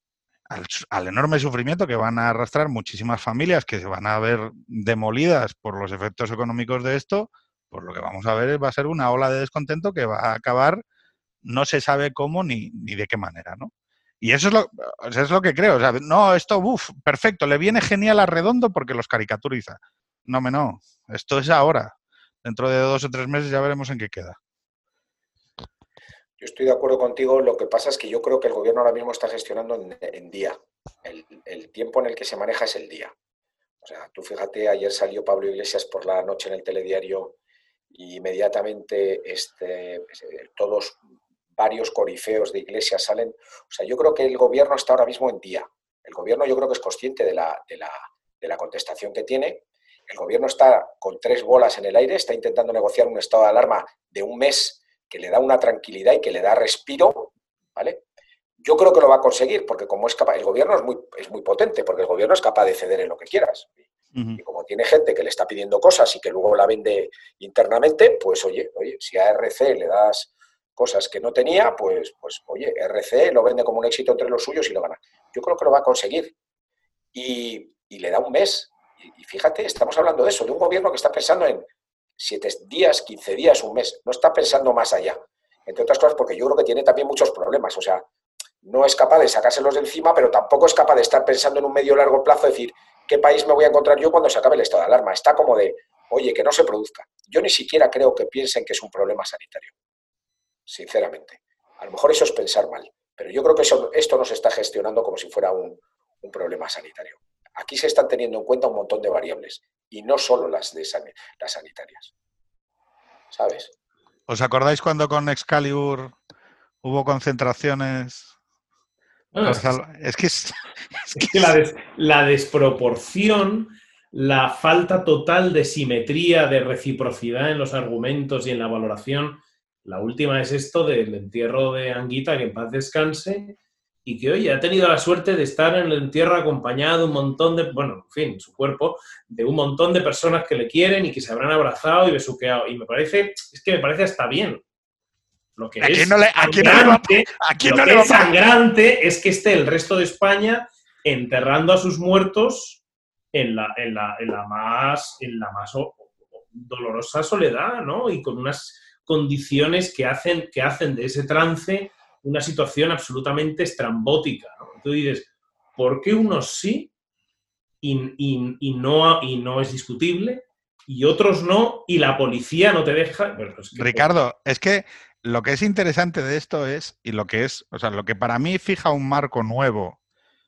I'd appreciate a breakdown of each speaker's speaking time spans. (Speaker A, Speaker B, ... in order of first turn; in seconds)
Speaker A: 0.5-10.8, 11.4-24.4, 64.1-64.4, 114.3-116.2, 116.8-118.3, 119.4-121.5, 145.8-148.3, 173.8-180.0
Speaker B: 26.4-33.1, 33.8-37.4, 37.9-41.0, 41.6-58.0, 58.6-63.7, 64.4-76.3, 77.1-88.0, 88.6-99.7, 100.7-112.1, 113.3-113.7
Speaker C: 119.3-119.7, 121.2-144.6, 145.6-152.8, 153.3-166.9, 167.8-174.1